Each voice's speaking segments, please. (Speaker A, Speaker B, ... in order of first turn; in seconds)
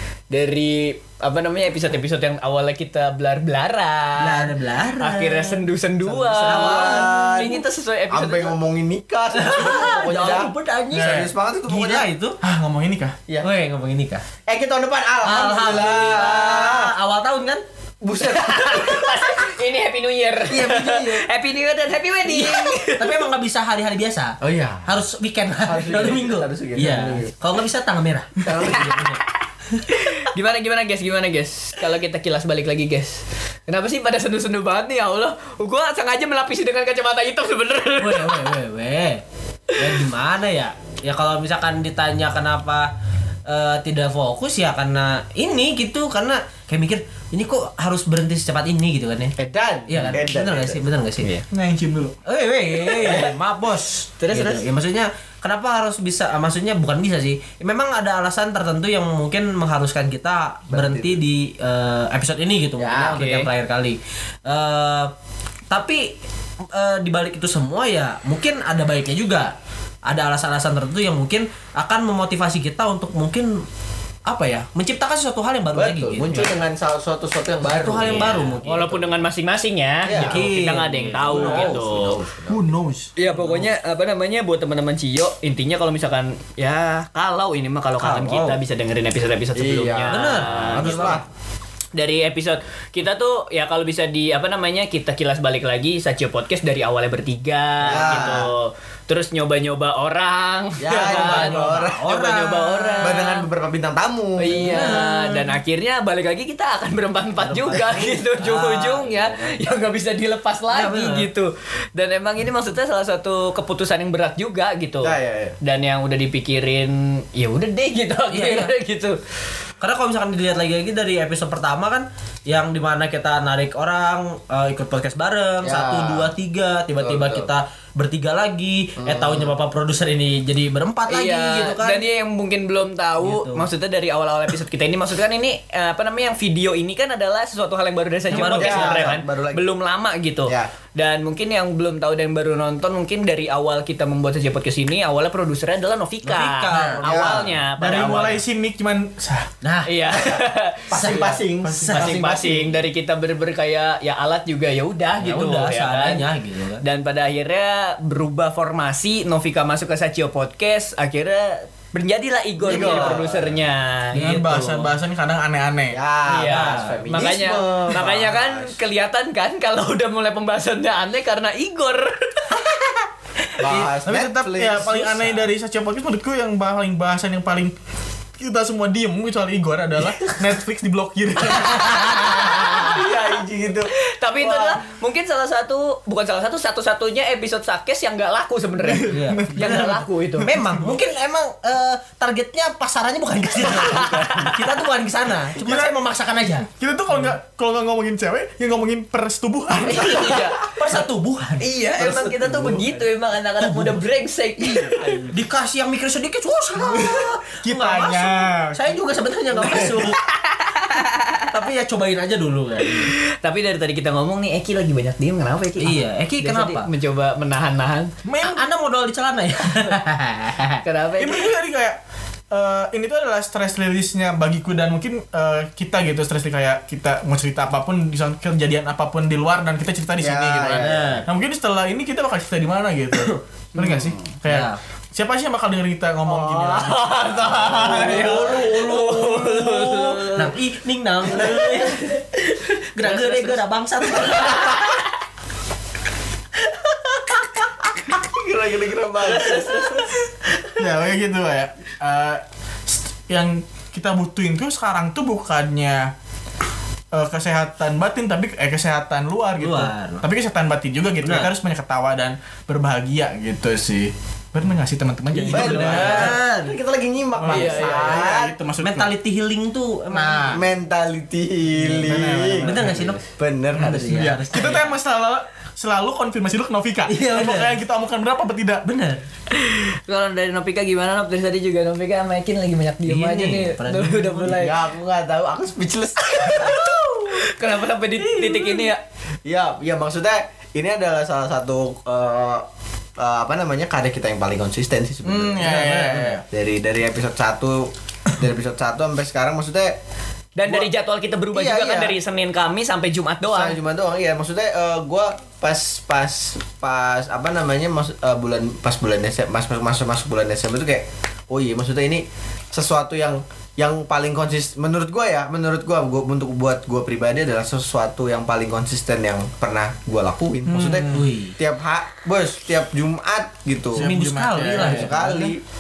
Speaker A: 0.3-8.5, 18.2-23.2, 30.0-38.5, 52.9-53.3, 54.2-54.6, 63.0-63.5, 78.6-82.2, 83.2-91.2, 92.0-103.4, 104.4-119.2, 131.1-148.4, 149.8-151.2, 151.9-156.2, 156.8-164.2, 166.3-172.6, 181.9-183.0, 184.2-190.5, 193.7-194.6, 199.8-200.6, 201.6-205.3, 209.9-211.5, 212.9-218.1, 220.8-221.5, 236.9-240.5, 241.4-242.0, 243.0-243.6, 244.2-244.9, 249.3-250.1, 267.5-268.2, 279.6-284.8, 286.5-289.0, 300.6-303.8
Speaker B: 4.2-7.2, 9.3-12.4, 13.4-14.2, 15.2-17.6, 20.5-21.3, 22.3-29.8, 38.0-39.2, 39.8-42.9, 43.5-49.3, 49.9-51.3, 52.2-65.1, 65.7-66.1, 66.7-69.5, 70.1-73.6, 74.3-76.5, 77.6-79.2, 80.1-81.8, 83.3-83.7, 88.0-88.6, 90.1-91.2, 97.9-98.5, 101.1-103.2, 104.5-105.5, 107.4-109.6, 110.7-111.3, 118.3-118.7, 119.8-132.0, 133.2-133.7, 138.3-139.0, 146.2-147.0, 149.6-150.1, 150.9-152.3, 155.2-156.8, 164.1-164.9, 166.4-167.0, 174.8-175.4, 181.7-182.8, 189.1-189.9, 190.4-196.7, 199.9-201.7, 203.6-204.0, 205.3-210.2, 211.5-213.1, 215.8-216.9, 218.4-220.8, 230.7-231.2, 233.2-233.9, 234.5-234.8, 237.8-244.9, 246.6-247.7, 259.6-260.2, 261.2-261.5, 265.3-266.8, 268.8-270.6, 271.9-273.2, 273.7-274.9, 277.1-277.8, 278.9-279.2, 283.1-284.7, 286.8-287.4, 288.1-288.9, 295.8-296.4, 321.1-321.5, 324.0-325.5
Speaker C: 6.4-12.1, 14.5-16.9, 18.0-19.1, 24.4-24.9, 25.6-27.3, 28.4-29.0, 49.4-50.8, 60.7-61.2, 62.8-63.2, 75.7-78.5, 80.0-80.4, 81.2-82.7, 89.5-91.2, 97.8-98.5, 100.8-102.0, 103.0-104.9, 115.0-115.6, 125.6-126.3, 127.0-127.5, 129.0-129.5, 138.3-139.7, 146.9-147.6, 150.9-152.7, 162.6-163.6, 165.9-168.8, 173.6-175.0, 182.8-184.8, 202.0-202.9, 230.2-231.1, 236.2-238.4, 248.2-250.0, 265.5-268.5, 270.5-272.8, 273.3-274.4, 284.5-286.7, 289.4-292.6, 293.2-300.0, 301.5-302.2, 303.4-325.6
Speaker D: 10.9-11.3, 12.4-13.2, 51.5-52.1, 82.5-83.1, 147.8-149.5, 151.8-152.1, 162.7-163.2, 164.1-166.0, 174.0-177.7, 178.4-182.2, 188.8-190.9, 195.5-195.9, 196.7-200.4, 207.6-208.8, 218.2-218.6, 221.2-222.0, 222.5-237.7, 250.8-256.1, 257.1-266.4, 267.4-269.1, 270.1-270.6, 271.9-273.2, 274.1-278.9, 295.2-296.4, 320.7-321.2, 323.9-325.3